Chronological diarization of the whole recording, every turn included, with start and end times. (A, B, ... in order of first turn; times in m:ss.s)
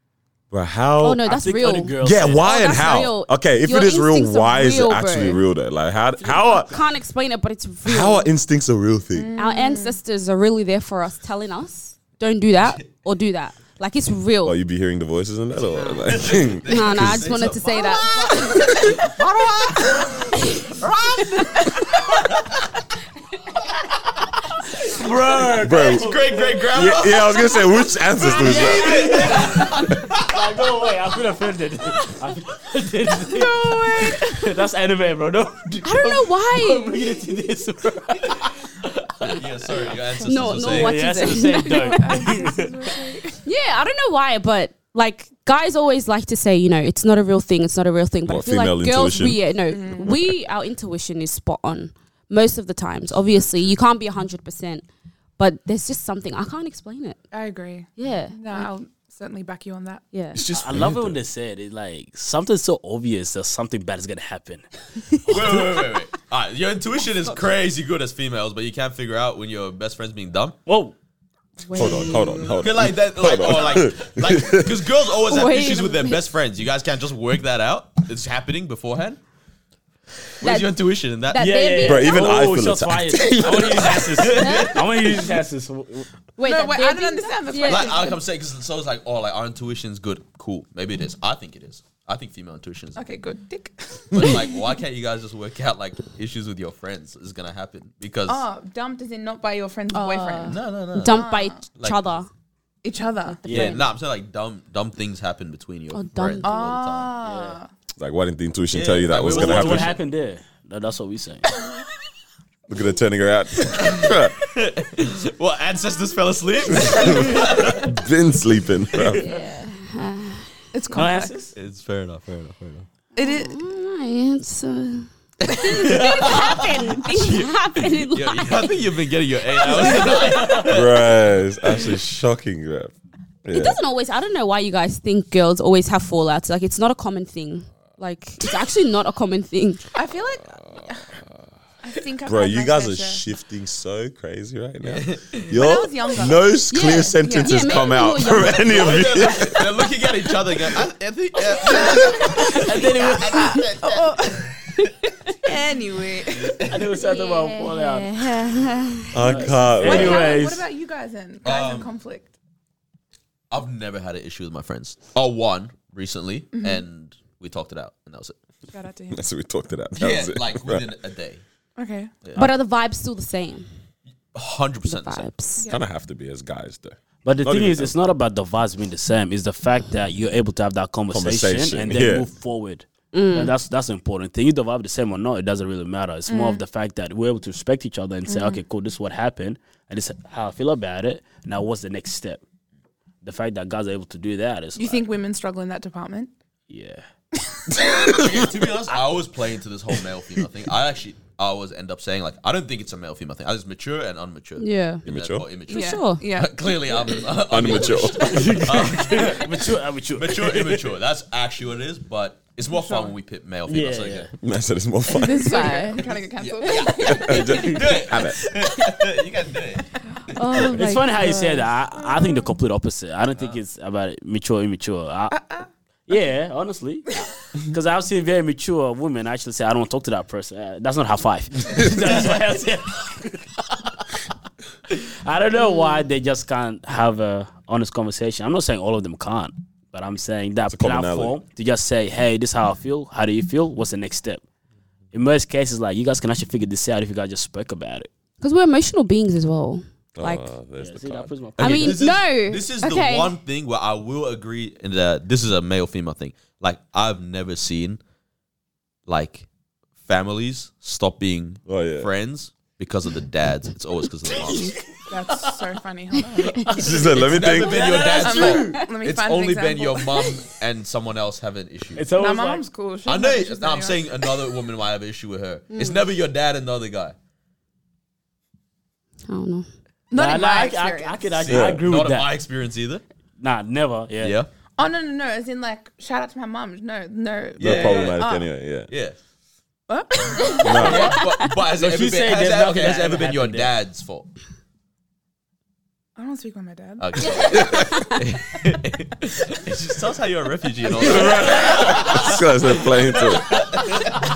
0:00.5-0:01.3 A
0:01.0-0:05.4 B
0:01.2-0:02.5 C
0:02.0-0:06.8 A
0:06.4-0:08.3 B
0:07.8-0:09.3 A
0:09.1-0:10.0 D
0:09.4-0:14.6 B
0:14.4-0:17.5 A
0:15.7-0:16.1 B
0:16.1-0:21.4 E
0:16.6-0:19.0 B
0:20.4-0:20.7 B
0:24.7-0:26.7 C
0:25.6-0:26.1 A
0:25.8-0:27.5 E
0:26.7-0:29.2 A
0:28.4-0:28.7 D
0:28.4-0:30.4 E
0:28.4-0:39.4 C
0:33.2-0:34.5 D
0:35.8-0:37.0 B
0:39.2-0:41.0 E
0:40.2-0:42.4 B
0:40.6-0:43.0 C
0:41.9-0:43.4 D
0:43.4-0:54.9 B
0:48.3-0:49.4 A
0:49.7-0:50.1 D
0:55.4-0:57.2 B
0:57.3-1:00.0 D
0:58.0-0:58.7 B
1:00.1-1:00.4 B
1:00.3-1:01.2 A
1:00.5-1:04.7 C
1:05.2-1:05.7 C
1:05.3-1:10.6 E
1:10.7-1:11.0 C
1:11.7-1:12.5 B
1:11.7-1:14.9 A
1:11.8-1:12.2 C
1:12.5-1:19.2 E
1:15.2-1:16.2 B
1:20.4-1:21.6 E
1:20.4-1:22.4 B
1:21.4-1:26.1 C
1:21.8-1:24.2 A
1:24.1-1:25.2 E
1:24.4-1:24.8 B
1:26.4-1:28.0 B
1:26.4-1:28.2 D
1:27.6-1:33.1 E
1:33.0-1:34.7 D
1:34.1-1:38.5 E
1:38.3-1:41.6 D
1:39.9-1:42.3 B
1:40.5-1:42.1 E
1:42.8-1:43.4 D
1:43.3-1:43.9 B
1:43.4-1:43.8 C
1:43.5-1:47.2 E
1:45.9-1:46.8 B
1:46.4-1:47.7 D
1:47.2-1:47.6 C
1:48.0-1:49.9 A
1:48.7-1:50.0 E
1:49.2-1:51.5 C
1:52.7-1:54.4 A
1:53.6-1:57.9 E
1:56.7-1:59.2 A
1:58.9-1:59.2 E
1:59.1-2:00.6 B
2:00.7-2:01.4 D
2:00.9-2:01.6 C
2:01.6-2:02.9 E
2:03.2-2:03.6 D
2:03.2-2:08.8 B
2:05.4-2:11.2 E
2:05.7-2:07.0 D
2:09.6-2:10.4 B
2:10.2-2:10.6 C
2:10.7-2:12.9 A
2:13.4-2:13.8 A
2:13.5-2:19.9 B
2:19.9-2:21.1 D
2:21.8-2:23.2 D
2:22.3-2:29.7 A
2:24.8-2:25.5 E
2:25.5-2:28.0 D
2:26.7-2:29.0 B
2:28.4-2:34.8 E
2:31.7-2:36.6 D
2:31.8-2:33.6 C
2:36.3-2:36.8 E
2:36.7-2:38.2 C
2:37.0-2:39.4 B
2:39.1-2:40.3 A
2:39.2-2:40.6 C
2:39.8-2:42.3 D
2:41.4-2:41.9 E
2:43.5-2:48.4 E
2:46.6-2:46.8 D
2:48.7-2:49.2 D
2:49.1-2:50.9 A
2:50.0-2:51.4 E
2:51.8-2:52.1 D
2:52.4-2:53.7 B
2:54.3-2:55.3 E
2:54.9-2:55.7 B
2:55.7-2:57.9 A
2:57.2-3:12.4 C
3:01.1-3:02.3 A
3:03.1-3:03.5 B
3:06.3-3:06.6 D
3:08.3-3:08.6 D
3:13.2-3:15.1 C
3:14.8-3:16.3 D
3:16.7-3:17.1 C
3:17.4-3:17.9 D
3:17.7-3:18.5 A
3:18.0-3:29.6 E
3:24.6-3:25.0 B
3:25.0-3:25.5 A
3:25.7-3:26.3 B
3:25.7-3:27.1 D
3:27.5-3:28.6 A
3:28.2-3:30.9 C
3:30.2-3:34.3 E
3:32.7-3:33.1 D
3:33.7-3:34.3 C
3:34.4-3:35.7 A
3:35.1-3:36.1 B
3:35.2-3:37.7 D
3:36.4-3:40.0 E
3:37.0-3:38.5 A
3:37.5-3:37.8 C
3:40.3-3:41.7 B
3:40.7-3:45.4 C
3:45.3-3:45.7 D
3:46.1-3:54.1 C
3:54.9-4:04.4 C
3:55.6-3:56.0 B
4:00.7-4:01.4 A
4:05.1-4:08.1 C
4:08.4-4:10.5 B
4:10.2-4:12.0 A
4:10.8-4:12.0 C
4:11.6-4:13.3 B
4:11.6-4:18.0 E
4:19.1-4:19.5 E
4:20.0-4:24.8 E
4:21.7-4:22.1 A
4:24.3-4:25.7 C
4:24.6-4:27.0 D
4:26.3-4:28.9 C
4:26.8-4:27.8 A
4:27.2-4:32.1 E
4:27.8-4:30.3 D
4:32.0-4:32.6 C
4:32.1-4:34.3 D
4:33.1-4:37.2 E
4:35.7-4:36.0 B
4:39.3-4:39.7 B
4:40.1-4:41.4 D
4:40.1-4:42.3 C
4:41.5-4:41.8 A
4:41.5-4:43.0 E
4:43.4-4:44.4 C
4:44.2-4:44.5 E
4:44.8-4:48.5 D
4:47.6-4:48.2 E
4:47.6-4:48.9 A
4:48.9-4:49.2 E
4:49.9-4:51.0 D
4:50.6-4:51.2 A
4:50.7-4:54.3 E
4:50.8-4:51.2 C
4:51.8-4:53.7 C
4:56.2-4:57.8 D
4:57.0-5:04.2 E
4:57.2-4:58.2 B
4:57.5-4:58.1 A
5:01.0-5:03.6 A
5:01.1-5:02.3 C
5:03.1-5:04.2 C